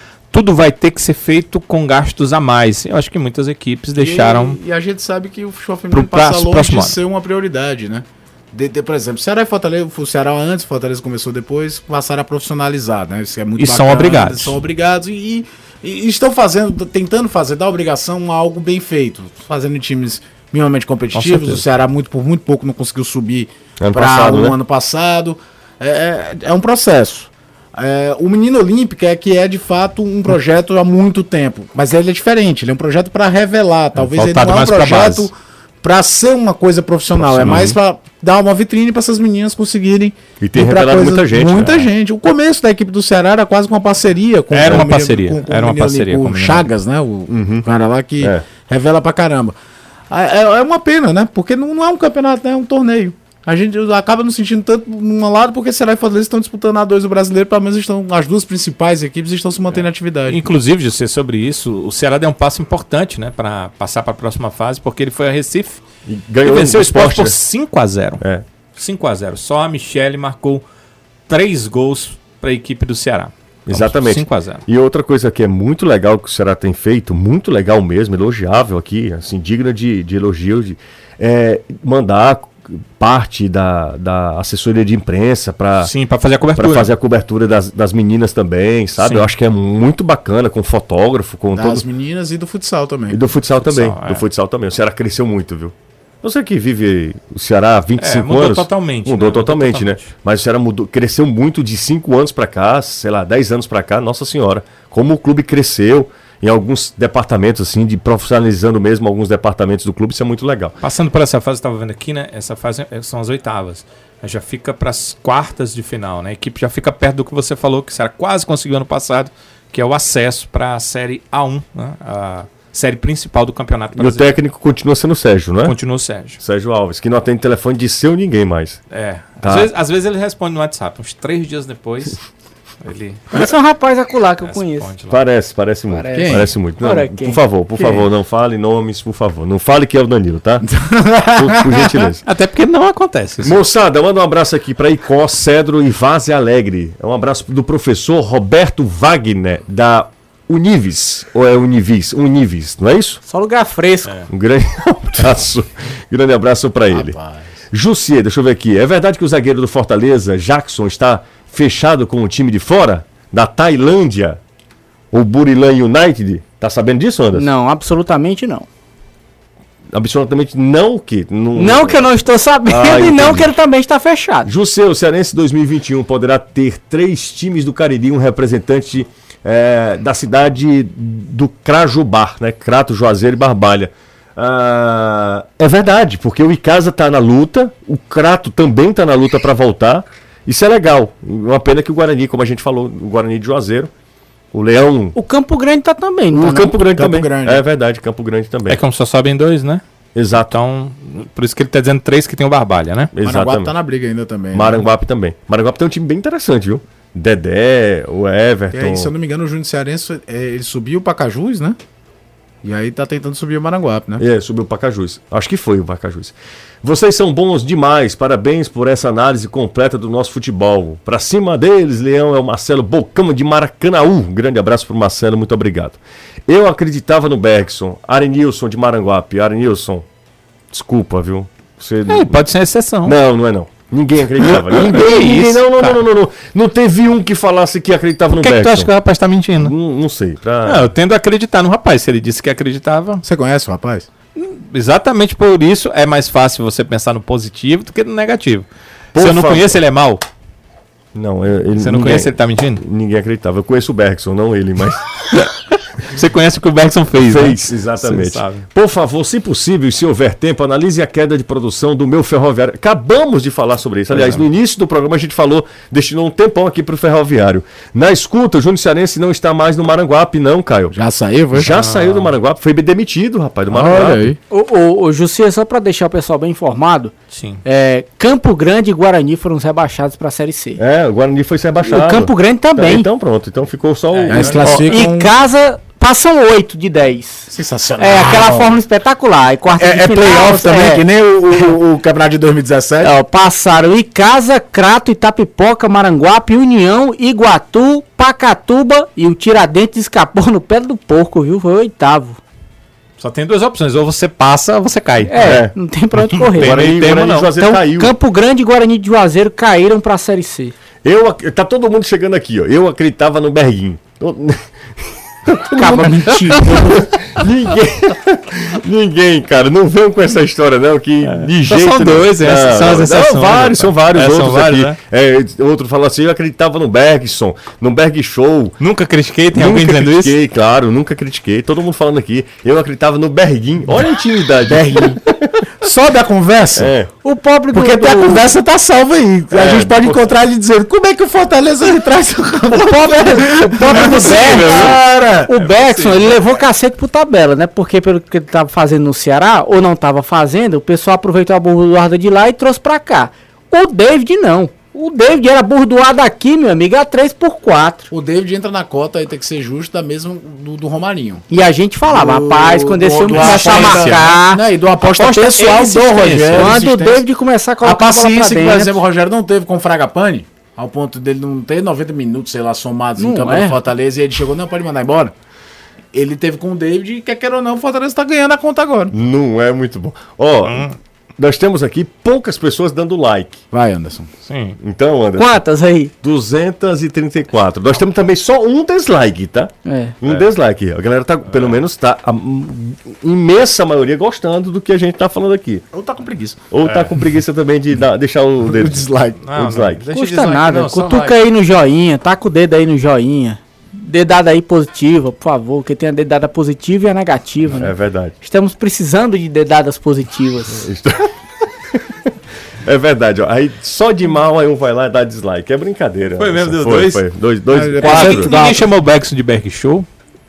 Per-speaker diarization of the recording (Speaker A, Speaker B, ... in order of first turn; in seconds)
Speaker A: 0.3-4.6, 5.9-7.0, 13.6-14.6, 21.1-21.6, 34.0-35.3, 44.5-46.7, 60.3-65.8, 66.4-68.2, 68.8-70.6, 71.3-74.6, 85.8-86.9, 89.0-89.3, 93.6-94.3, 98.0-100.1, 110.8-124.4, 125.6-126.4, 128.9-132.2, 132.8-133.4, 134.4-135.2, 142.2-143.6, 198.7-199.8, 200.4-203.1, 232.1-233.2, 234.4-236.0, 238.4-239.7, 240.7-243.2, 244.3-250.2, 251.8-252.8, 255.3-258.6, 264.2-264.4, 271.6-272.3, 277.3-277.6, 284.1-285.1, 303.2-305.6, 306.3-307.5, 321.2-325.0, 328.8-330.4, 344.0-345.0, 345.5-346.6, 363.3-364.4, 366.2-366.8, 380.7-381.0, 384.4-384.8, 396.8-397.1, 399.4-401.4, 416.4-417.2, 418.0-420.1
Speaker B: 4.0-49.5, 50.1-60.4, 91.5-93.2, 136.1-136.5, 140.7-142.0, 156.9-157.5, 196.9-197.6, 203.2-204.8, 208.7-211.8, 212.6-214.2, 243.2-244.1, 270.9-271.7, 273.7-274.4, 284.3-285.3, 287.5-288.8, 289.8-293.1, 334.7-335.2, 335.8-336.9, 337.7-345.5, 358.1-361.4, 362.1-367.2, 367.8-375.3, 376.1-379.1, 383.7-384.3, 395.9-396.6, 398.7-399.4, 417.7-418.6
Speaker C: 23.8-24.6, 37.1-37.8, 40.4-41.8, 47.3-47.7, 48.2-48.5, 66.1-67.3, 68.2-68.5, 73.7-85.9, 86.5-91.8, 93.1-110.8, 124.0-125.8, 126.4-128.8, 129.4-129.7, 135.1-140.7, 141.3-142.2, 143.4-153.2, 154.3-157.2, 157.7-164.4, 165.1-167.5, 169.9-172.1, 172.7-173.5, 174.4-193.9, 194.5-195.2, 196.3-198.8, 200.2-200.5, 203.1-203.7, 204.5-209.1, 214.2-230.1, 230.7-232.4, 233.0-238.9, 239.6-240.9, 249.1-249.8, 251.1-255.1, 257.2-270.9, 271.5-274.3, 280.8-284.9, 305.4-305.7, 306.6-308.1, 311.1-328.8, 329.5-335.7, 336.8-337.1, 339.5-340.2, 379.1-383.6, 384.8-385.6, 386.2-395.8, 396.7-400.0, 407.7-408.3, 410.8-411.3, 411.9-412.3, 412.8-418.5
Speaker D: 133.3-134.9, 135.9-138.0, 153.2-154.3, 167.3-168.7, 171.6-174.5, 195.2-196.8, 274.5-277.1, 277.6-280.8, 281.8-283.1, 284.7-291.0, 293.0-302.4, 305.3-310.7, 315.8-317.1, 337.2-338.5, 342.7-358.1, 361.5-369.0, 373.2-373.8, 385.4-386.1, 389.9-390.2, 400.1-410.9, 418.1-418.8